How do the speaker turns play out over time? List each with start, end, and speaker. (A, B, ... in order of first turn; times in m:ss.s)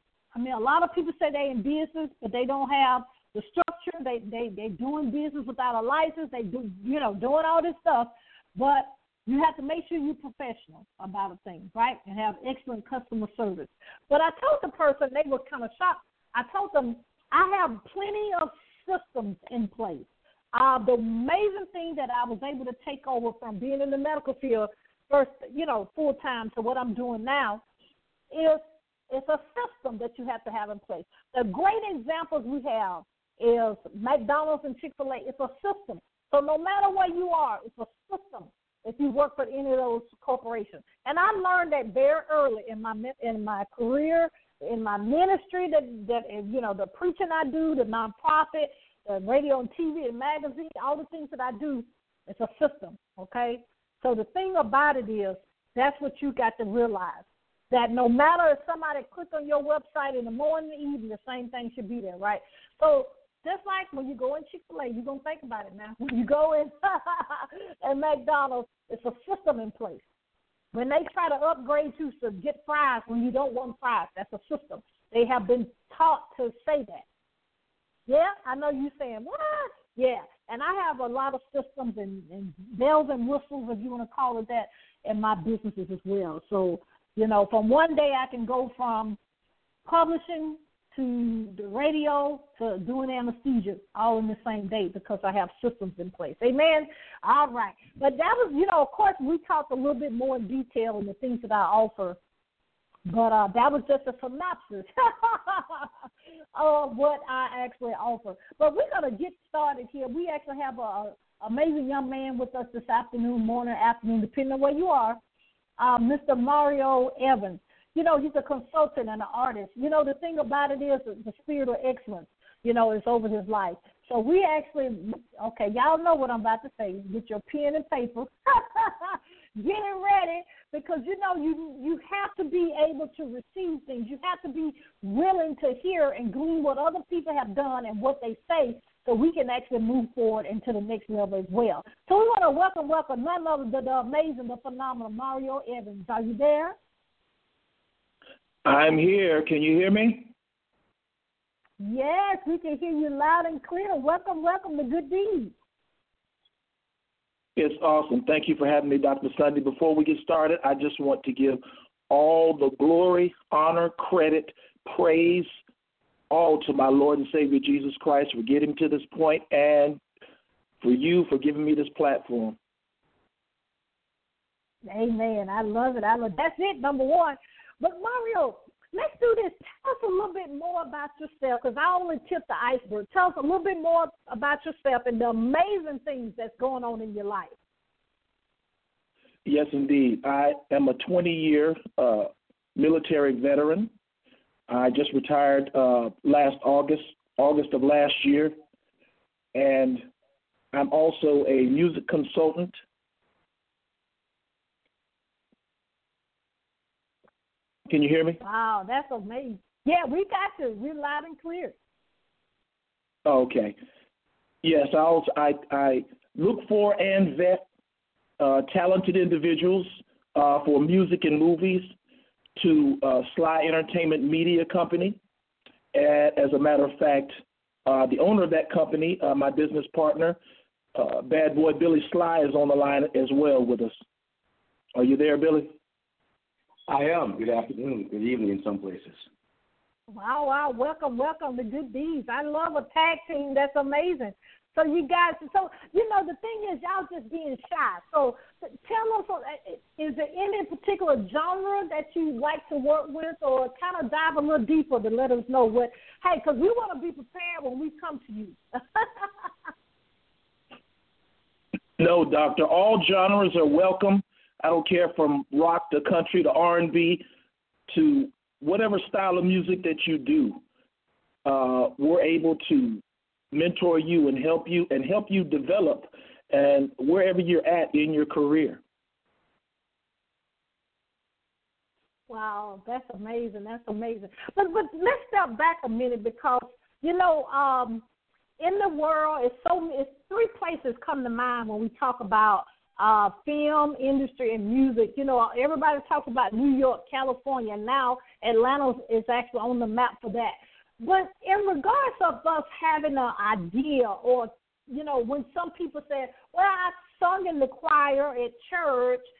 0:00.3-0:27.6 A
0:28.3-1:10.0 A
1:10.7-1:17.0 A
1:18.1-1:29.2 A
1:29.9-1:42.2 A
1:43.1-1:45.9 A
1:46.6-1:55.2 A
1:55.8-2:26.8 A
2:28.6-2:30.3 B
2:31.8-2:35.5 A
2:37.6-2:45.5 B
2:46.3-2:50.0 B
2:50.8-2:52.6 B
2:54.9-3:07.5 A
3:09.4-3:13.9 B
3:14.7-3:18.5 B
3:19.5-3:20.1 B
3:20.7-3:22.8 B
3:27.9-3:28.4 B
3:28.4-3:31.8 A
3:33.3-3:33.8 B
3:34.6-3:37.6 B
3:38.4-3:41.9 B
3:42.6-3:45.2 B
3:45.9-3:47.3 B
3:47.9-3:50.4 B
3:51.0-3:54.0 B
3:55.0-3:55.7 B
3:56.9-3:59.3 C
4:00.1-4:19.3 A
4:22.0-4:27.2 B
4:27.9-4:30.6 B
4:31.4-4:38.8 B
4:42.3-4:48.0 A
4:48.6-5:09.2 A